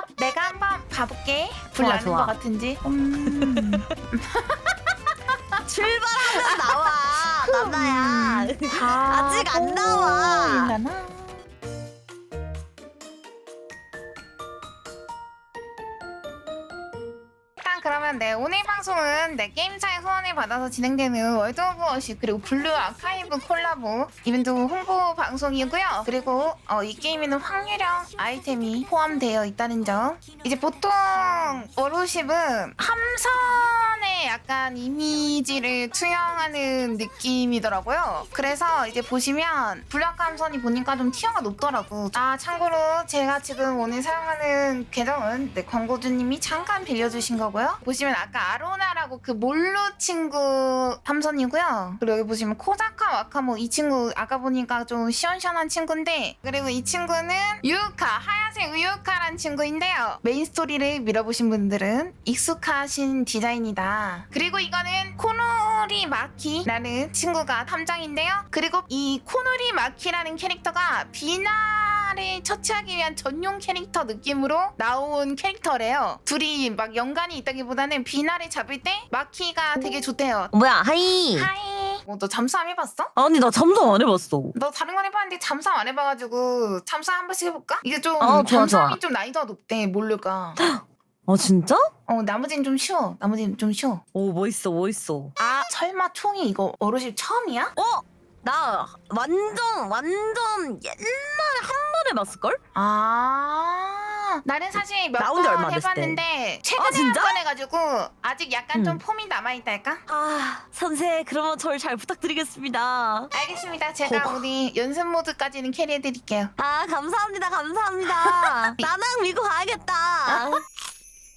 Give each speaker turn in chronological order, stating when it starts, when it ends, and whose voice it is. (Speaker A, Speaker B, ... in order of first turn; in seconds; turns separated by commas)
Speaker A: 0.2-5.6, Speaker B: 1.8-2.4, Speaker B: 3.4-3.8, Speaker B: 5.7-10.7, Speaker A: 6.3-6.8, Speaker A: 7.3-11.4, Speaker A: 17.6-80.5, Speaker B: 80.5-81.5, Speaker A: 81.3-83.1, Speaker B: 83.2-84.5, Speaker A: 84.5-90.6, Speaker B: 88.2-89.0, Speaker B: 90.6-91.9, Speaker A: 92.1-94.0, Speaker B: 94.1-95.3, Speaker A: 95.4-97.7, Speaker B: 97.8-102.6, Speaker A: 102.7-110.0, Speaker B: 105.2-106.2, Speaker B: 106.8-107.4, Speaker B: 108.7-109.0, Speaker B: 110.1-113.3, Speaker A: 113.3-116.5, Speaker B: 114.0-114.4, Speaker B: 116.6-120.6, Speaker A: 118.0-118.9, Speaker A: 120.3-120.5